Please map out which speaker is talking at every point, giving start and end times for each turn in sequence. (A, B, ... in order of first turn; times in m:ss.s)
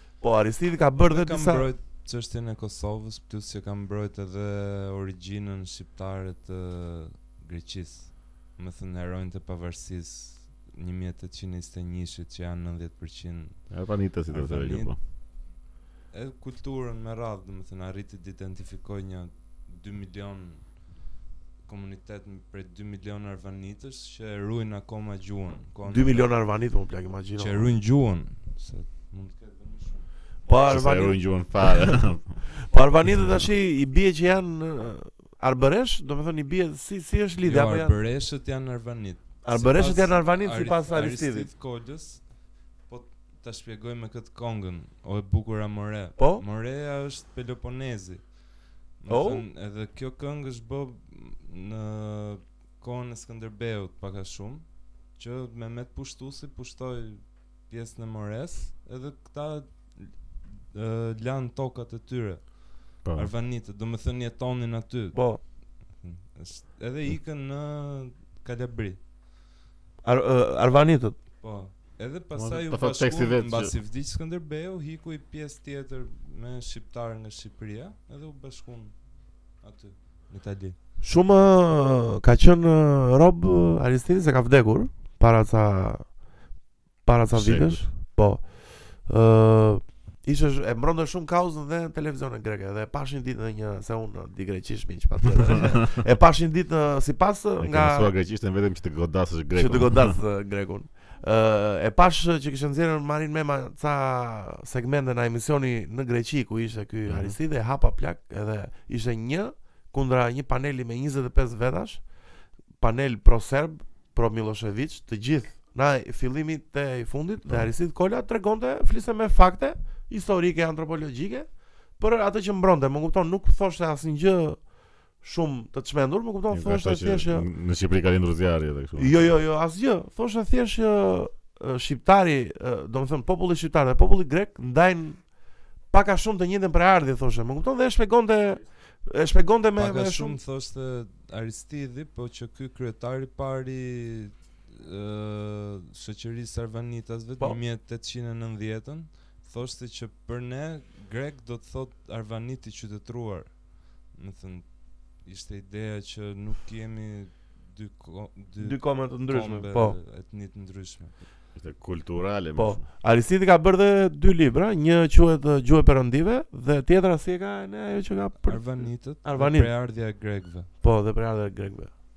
0:00.2-0:01.7 A
0:01.0-0:13.8 B
0:13.7-0:15.0 C
0:14.3-0:14.9 B
0:16.1-0:21.1 B
0:21.6-0:26.4 B
0:25.9-0:27.7 A
0:27.4-0:30.1 B
0:30.4-0:32.1 A
0:30.7-0:32.4 C
0:32.6-0:38.0 A
0:37.4-1:09.0 B
0:39.4-0:41.5 A
0:46.2-0:46.4 A
0:49.1-0:49.4 A
1:03.0-1:03.3 C
1:05.1-1:05.4 A
1:10.0-1:11.2 A
1:11.4-1:20.8 B
1:12.3-1:13.7 C
1:21.0-1:26.2 A
1:27.0-1:38.1 A
1:27.3-1:27.9 C
1:37.6-1:40.2 C
1:39.5-1:52.0 A
1:47.0-1:47.4 C
1:52.8-2:04.6 A
2:05.2-2:07.5 A
2:06.5-2:09.3 C
2:09.0-2:15.2 A
2:15.9-2:20.4 A
2:19.8-2:41.1 B
2:38.6-2:40.0 A
2:41.5-2:42.8 C
2:42.6-2:49.7 A
2:48.4-2:50.7 B
2:50.8-2:51.9 A